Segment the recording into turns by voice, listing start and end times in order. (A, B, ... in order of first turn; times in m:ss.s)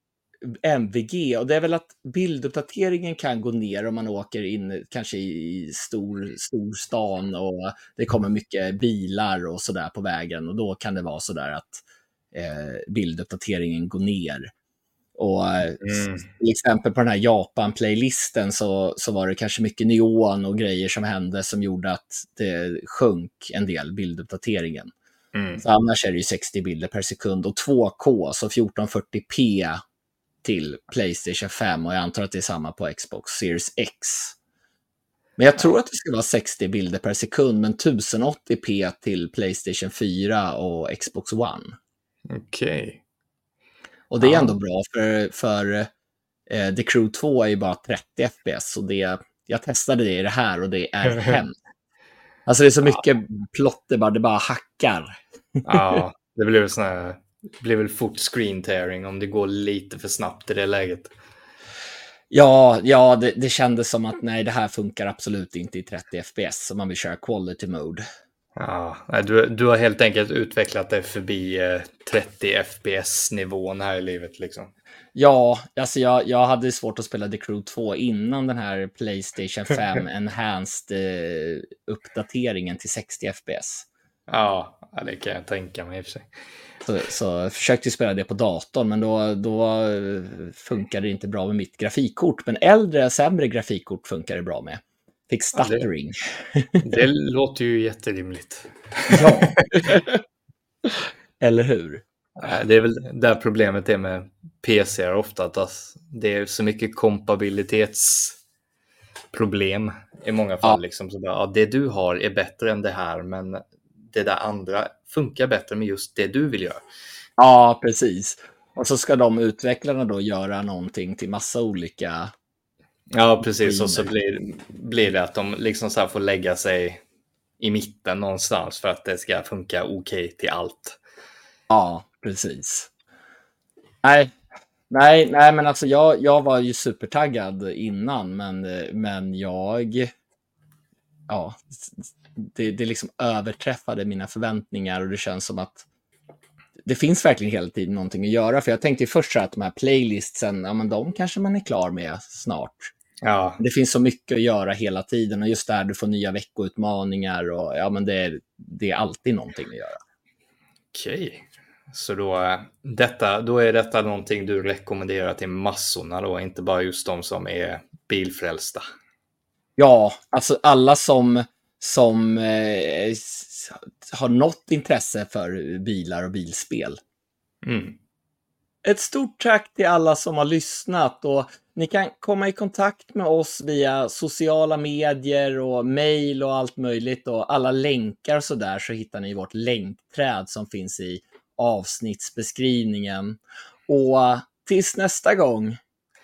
0:00.4-0:14.5 A
0:15.2-0:24.9 A
0:15.8-0:16.3 B
0:25.3-0:25.6 B
0:25.6-0:29.8 A
0:30.4-0:34.4 A
0:35.4-0:41.7 A
0:42.3-0:43.0 B
0:44.1-0:45.9 A
0:44.2-0:44.6 B
0:46.5-0:51.5 A
0:51.1-0:51.4 B
0:52.5-0:56.0 A
0:55.6-1:01.1 B
1:02.3-1:08.0 A
1:08.6-1:14.7 B
1:15.2-1:23.9 A
1:24.3-1:26.3 B
1:26.9-1:36.9 A
1:35.6-1:35.9 B
1:36.8-1:39.8 B
1:39.1-1:40.2 A
1:41.4-1:42.0 A
1:42.4-1:48.4 B
1:49.3-1:56.8 B
1:57.4-2:02.3 A
2:03.1-2:07.0 B
2:03.4-2:04.1 A
2:07.6-2:11.0 B
2:11.7-2:12.9 A
2:14.0-2:14.4 A
2:14.9-2:20.1 A
2:21.3-2:25.8 A
2:26.8-2:32.9 A
2:33.2-2:33.6 B
2:33.6-2:40.0 A
2:40.9-2:48.8 B
2:49.8-2:57.0 A
2:57.6-2:58.0 B
2:58.8-3:15.8 A